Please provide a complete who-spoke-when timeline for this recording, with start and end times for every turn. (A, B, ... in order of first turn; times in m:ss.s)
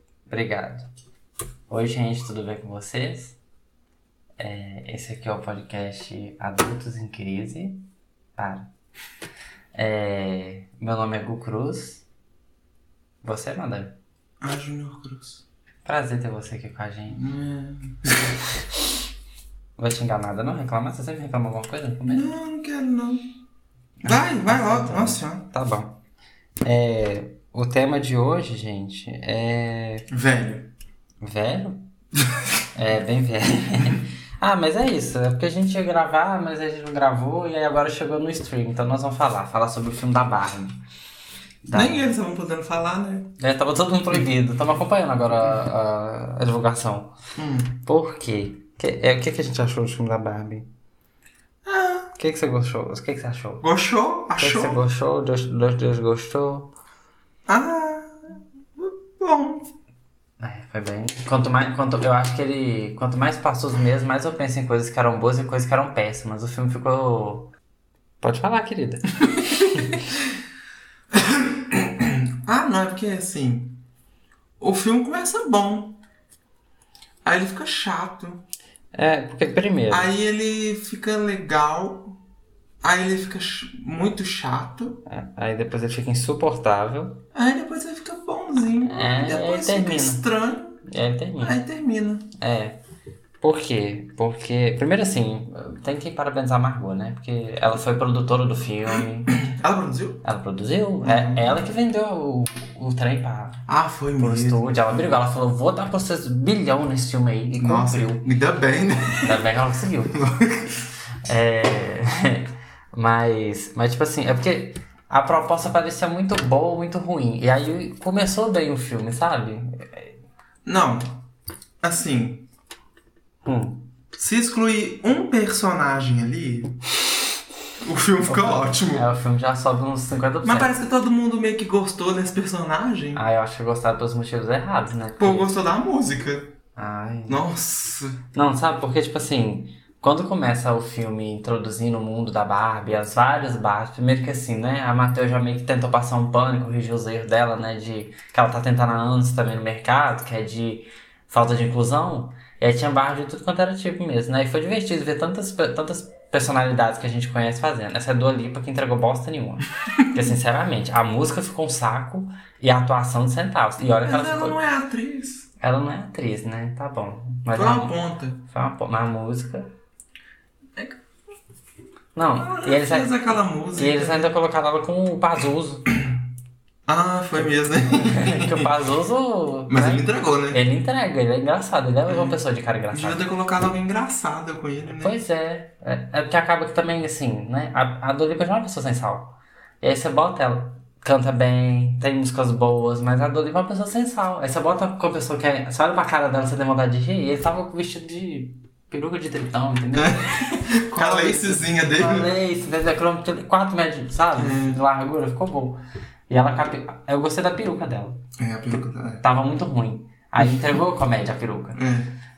0:00.3-0:00.9 A
0:01.7-0:03.4 A
0:04.4-0:07.8 A
0:08.4-0:08.7 A
0:09.7-0:12.0 A
0:13.2-0:14.0 A
0:14.4-0:15.4 B
0:15.8-0:17.2 A
0:17.1-0:18.4 B
0:19.8-0:22.3 A
0:22.1-0:23.3 B
0:24.0-0:26.0 A
0:24.0-0:25.5 B
0:26.6-0:30.1 A
0:30.1-0:30.7 B
0:31.2-0:31.8 A
0:32.8-0:40.8 A
0:41.6-0:42.1 A
0:41.7-0:43.3 B
0:43.4-0:47.2 A
0:47.4-0:47.8 B
0:47.8-0:50.7 A
0:51.7-0:52.1 B
0:52.2-0:53.6 A
0:53.6-0:54.8 B
0:54.4-0:56.7 A
0:57.5-0:59.7 B
1:00.4-1:07.5 A
1:08.2-1:10.0 A
1:09.4-1:10.1 B
1:11.1-1:13.8 B
1:14.6-1:16.0 B
1:17.2-1:18.4 B
1:18.9-1:20.1 A
1:19.9-1:22.2 B
1:22.8-1:25.0 B
1:25.1-1:27.2 A
1:27.3-1:30.8 B
1:28.9-1:30.2 A
1:30.8-1:31.6 A
1:31.4-1:32.3 B
1:32.4-1:32.8 A
1:33.4-1:39.4 A
1:39.3-1:40.2 B
1:40.2-1:43.6 A
1:41.0-1:41.6 B
1:43.7-1:45.0 B
1:44.2-1:48.3 A
1:47.6-1:49.4 B
1:49.2-1:50.2 A
1:50.1-1:50.8 B
1:51.3-2:00.1 A
2:00.6-2:01.2 B
2:01.8-2:02.5 B
2:03.4-2:03.9 A
2:04.1-2:06.8 B
2:07.8-2:09.1 B
2:08.2-2:10.8 A
2:10.4-2:13.2 B
2:13.2-2:15.6 A
2:15.2-2:16.5 B
2:16.8-2:17.4 A
2:17.3-2:18.2 B
2:18.3-2:44.6 A
2:44.0-2:45.5 B
2:45.6-2:49.7 A
2:47.6-2:48.4 B
2:52.2-2:55.9 A
2:52.4-2:54.3 B
2:56.9-2:58.7 B
2:57.4-3:03.2 A
2:59.7-3:00.6 B
3:02.1-3:02.4 B
3:02.9-3:05.2 B
3:05.0-3:28.2 A
3:20.0-3:22.3 B
3:24.4-3:24.8 B
3:28.4-3:29.2 B
3:29.2-3:31.8 A
3:30.4-3:30.8 B
3:31.8-3:32.1 B